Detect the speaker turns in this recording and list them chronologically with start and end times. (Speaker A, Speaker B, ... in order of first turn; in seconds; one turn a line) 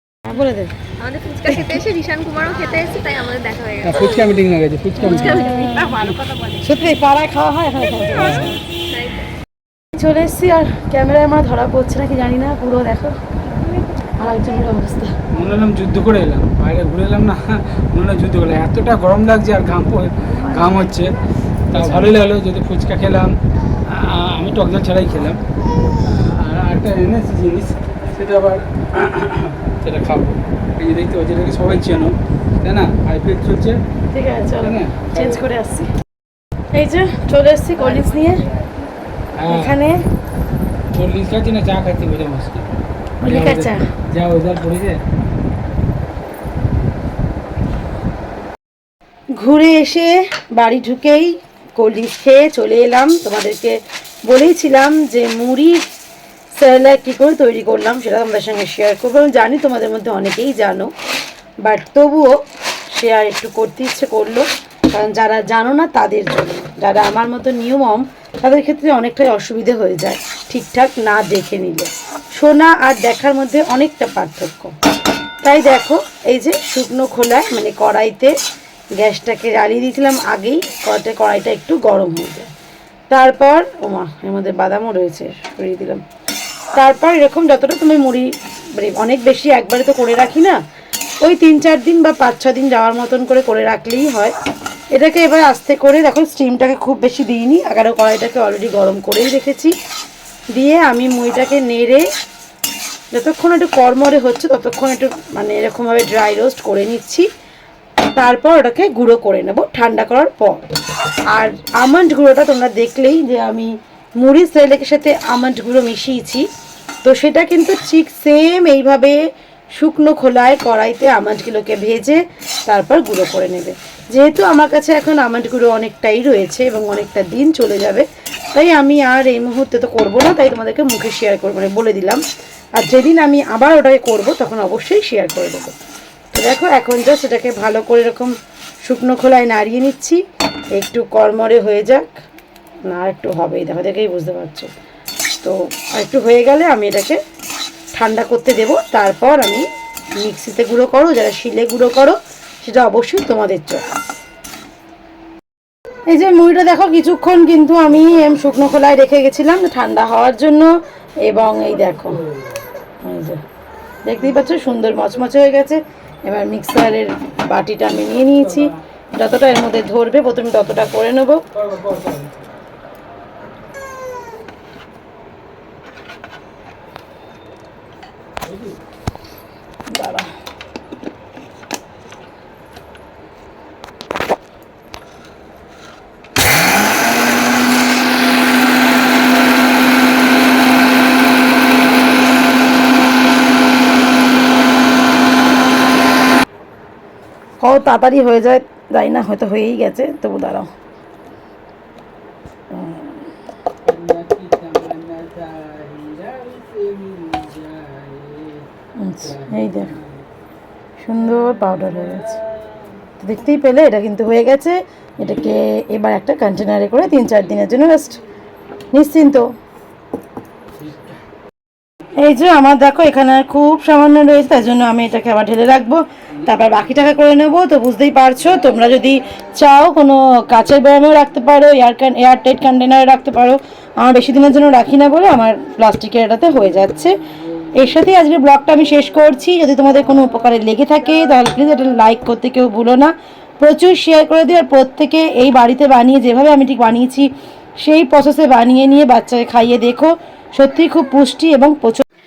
Speaker A: 0.2-0.7
Speaker B: 1.0-3.9
Speaker C: 3.8-6.2
Speaker A: 5.0-8.6
Speaker B: 8.9-9.3
Speaker A: 9.9-13.1
Speaker A: 14.2-15.1
Speaker C: 15.3-21.1
Speaker C: 21.7-23.3
Speaker C: 23.9-25.4
Speaker C: 26.0-33.8
Speaker A: 34.1-35.9
Speaker C: 34.6-35.2
Speaker A: 36.7-38.5
Speaker C: 39.4-39.8
Speaker A: 39.5-40.0
Speaker C: 40.9-42.7
Speaker A: 43.2-43.9
Speaker C: 43.2-45.0
Speaker A: 49.3-55.8
Speaker A: 56.5-60.9
Speaker A: 61.6-62.4
Speaker A: 62.9-74.7
Speaker A: 75.4-78.3
Speaker A: 78.9-82.5
Speaker A: 83.1-86.0
Speaker A: 86.7-90.6
Speaker A: 91.2-94.3
Speaker A: 94.9-99.7
Speaker A: 100.5-102.0
Speaker A: 103.1-107.2
Speaker A: 108.1-110.6
Speaker A: 111.3-116.5
Speaker A: 117.0-119.2
Speaker A: 119.8-132.2
Speaker A: 132.8-135.7
Speaker A: 136.3-140.2
Speaker A: 140.7-142.2
Speaker A: 142.9-144.7
Speaker A: 145.3-147.2
Speaker A: 147.9-149.7
Speaker A: 150.2-153.8
Speaker A: 156.1-160.7
Speaker A: 161.2-162.2
Speaker C: 162.1-162.6
Speaker A: 163.0-163.4
Speaker A: 164.0-171.4
Speaker C: 168.0-168.8
Speaker C: 171.5-172.4
Speaker C: 178.4-178.8
Speaker A: 179.9-180.3
Speaker A: 197.6-200.7
Speaker A: 202.7-203.2
Speaker C: 203.8-208.7
Speaker A: 209.0-209.9
Speaker C: 209.2-210.2
Speaker A: 211.0-212.4
Speaker C: 211.4-212.3
Speaker A: 213.2-218.2
Speaker A: 218.9-219.5
Speaker C: 220.8-221.2
Speaker A: 222.2-237.2
Speaker A: 237.7-247.3
Speaker A: 247.8-252.0